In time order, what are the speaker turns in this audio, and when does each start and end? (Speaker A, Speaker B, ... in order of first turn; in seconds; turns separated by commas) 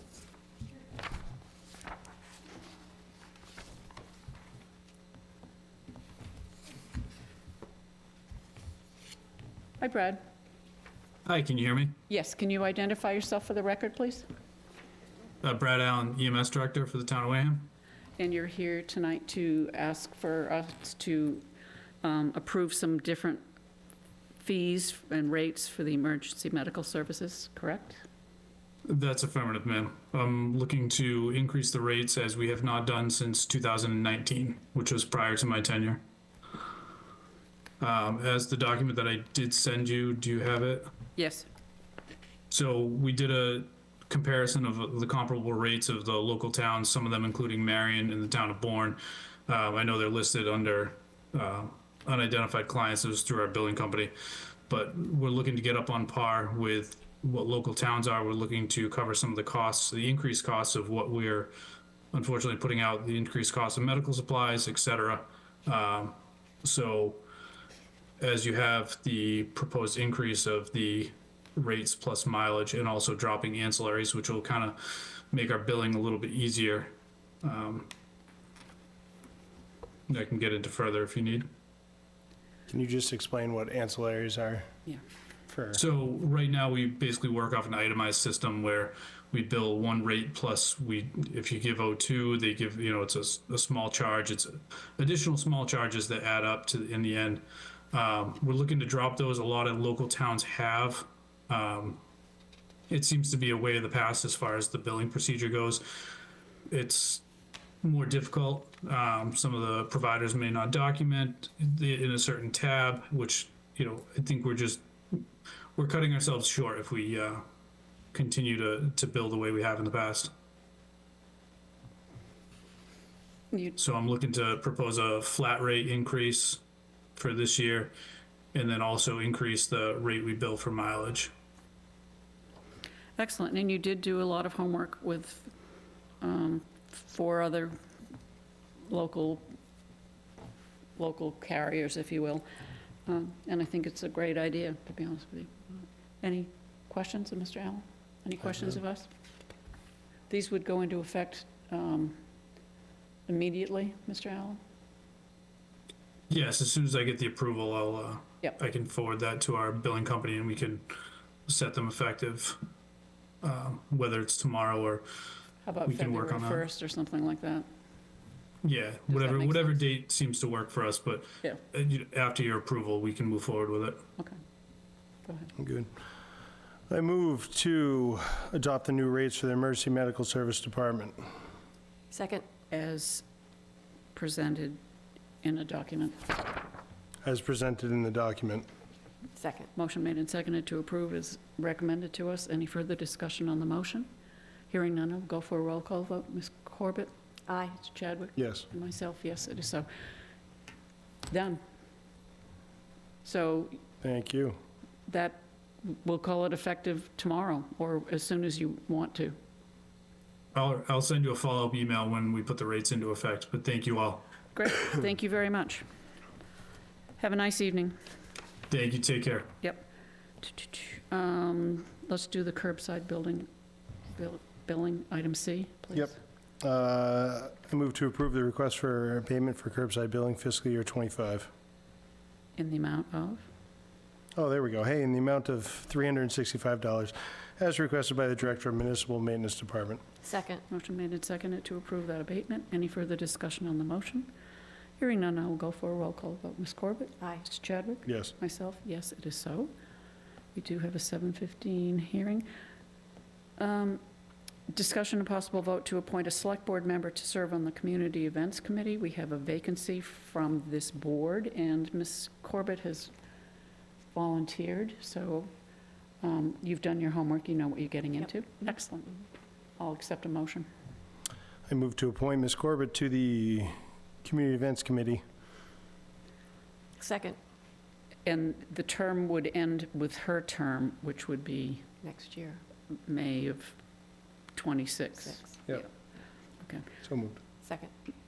Speaker A: 9.8-10.2, Speaker B: 11.2-12.0, Speaker A: 12.1-14.3, Speaker B: 15.4-17.7, Speaker A: 18.2-21.4, Speaker A: 22.0-23.4, Speaker A: 24.4-28.0, Speaker B: 28.9-36.0, Speaker B: 37.8-40.9, Speaker A: 41.2-41.4, Speaker B: 42.5-54.1, Speaker B: 54.7-61.5, Speaker B: 62.1-67.2, Speaker B: 68.2-77.9, Speaker B: 80.1-81.5, Speaker C: 82.7-84.7, Speaker C: 85.5-85.8, Speaker B: 85.7-102.0, Speaker B: 102.9-106.1, Speaker B: 106.7-107.2, Speaker B: 107.8-117.4, Speaker B: 118.1-120.3, Speaker A: 123.5-123.8, Speaker B: 123.8-126.6, Speaker B: 127.2-127.9, Speaker B: 128.5-131.3, Speaker A: 133.2-135.5, Speaker A: 136.2-137.8, Speaker A: 138.8-139.5, Speaker A: 141.0-142.4, Speaker A: 143.1-149.1, Speaker A: 150.3-152.2, Speaker A: 153.3-154.6, Speaker B: 156.3-160.9, Speaker B: 161.5-162.6, Speaker B: 163.4-165.1, Speaker A: 165.6-167.7, Speaker B: 165.8-166.7, Speaker B: 168.6-174.0, Speaker A: 169.1-169.8, Speaker A: 175.2-175.5, Speaker C: 175.6-175.9, Speaker C: 176.9-181.2, Speaker D: 182.1-182.4, Speaker A: 182.7-183.2, Speaker A: 184.1-184.8, Speaker A: 185.4-186.4, Speaker C: 187.2-188.7, Speaker D: 189.4-189.7, Speaker A: 189.8-194.1, Speaker A: 194.7-197.1, Speaker D: 197.5-197.8, Speaker A: 197.7-199.9, Speaker C: 198.4-198.7, Speaker A: 201.3-201.6, Speaker A: 203.2-203.8, Speaker C: 204.0-204.6, Speaker A: 205.1-209.4, Speaker B: 210.5-214.2, Speaker A: 214.5-215.9, Speaker A: 217.2-218.0, Speaker B: 218.7-219.5, Speaker A: 220.4-223.5, Speaker A: 224.2-226.2, Speaker C: 225.9-231.5, Speaker A: 232.6-233.5, Speaker C: 234.3-240.0, Speaker D: 240.2-240.6, Speaker A: 240.7-244.3, Speaker A: 245.0-249.7, Speaker C: 248.1-248.3, Speaker A: 250.6-252.5, Speaker A: 253.6-254.0, Speaker A: 254.7-263.1, Speaker A: 264.1-265.5, Speaker A: 266.2-269.2, Speaker A: 269.8-270.7, Speaker C: 271.7-275.2, Speaker D: 277.0-277.4, Speaker A: 278.2-281.9, Speaker D: 282.0-282.6, Speaker A: 282.9-283.8, Speaker A: 284.6-285.9, Speaker D: 285.2-285.6, Speaker C: 287.0-287.4, Speaker D: 287.6-287.9